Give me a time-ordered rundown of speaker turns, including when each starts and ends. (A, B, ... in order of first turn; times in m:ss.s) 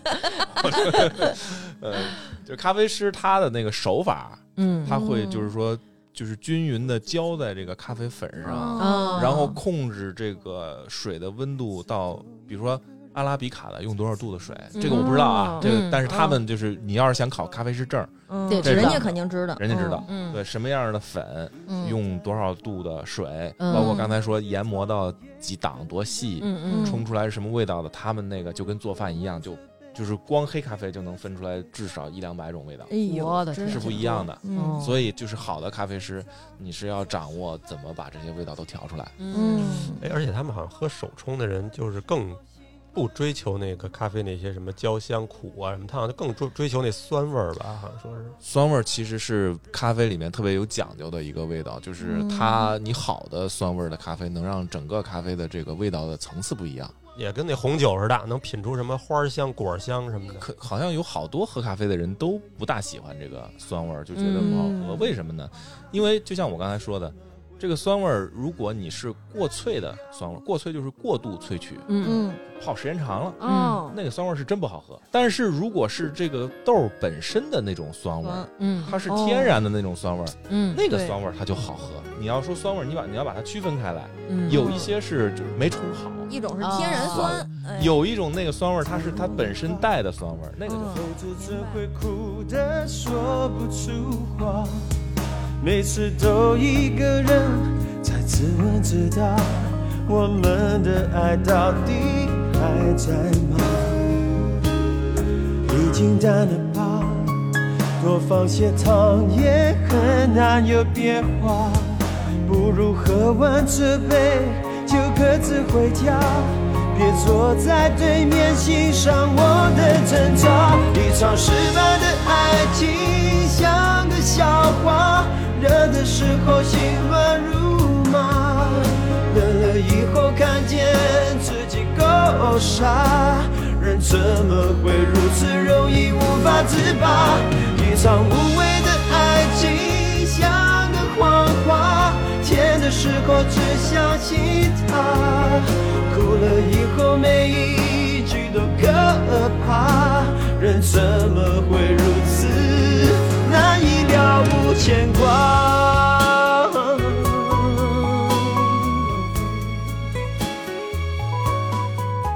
0:00.6-0:32.9 A
0:04.6-0:05.0 B
0:04.9-0:05.5 C
0:08.4-0:09.4 C
0:08.8-0:09.6 B
0:14.7-0:16.0 B
0:14.8-0:16.4 C
0:18.3-0:20.1 C
0:18.5-0:19.0 B
0:20.0-0:20.4 B
0:21.7-0:22.0 C
0:23.6-0:24.1 B
0:26.4-0:27.0 B
0:26.7-0:27.0 C
0:32.9-0:34.9 C
0:33.0-0:35.0 B
0:33.6-0:39.2 A
0:39.2-0:39.9 B
0:39.3-0:40.0 C
0:40.0-0:42.4 D
0:42.9-0:48.4 D
0:48.4-0:56.9 A
0:52.0-0:52.7 C
0:57.1-1:00.4 D
1:00.4-1:11.9 A
1:04.1-1:04.7 B
1:04.4-1:05.1 C
1:11.9-1:12.2 B
1:12.0-1:12.4 C
1:12.5-1:26.3 A
1:13.4-1:14.0 C
1:13.4-1:13.8 B
1:18.2-1:19.6 C
1:18.6-1:18.9 B
1:20.5-1:20.8 B
1:20.9-1:21.2 C
1:24.3-1:24.7 B
1:24.5-1:24.9 C
1:26.3-1:28.0 C
1:26.6-1:27.4 B
1:26.9-1:31.0 A
1:29.0-1:29.8 E
1:29.1-1:29.5 C
1:30.6-1:31.8 C
1:30.8-1:34.9 E
1:35.6-1:44.4 E
1:45.6-2:39.2 E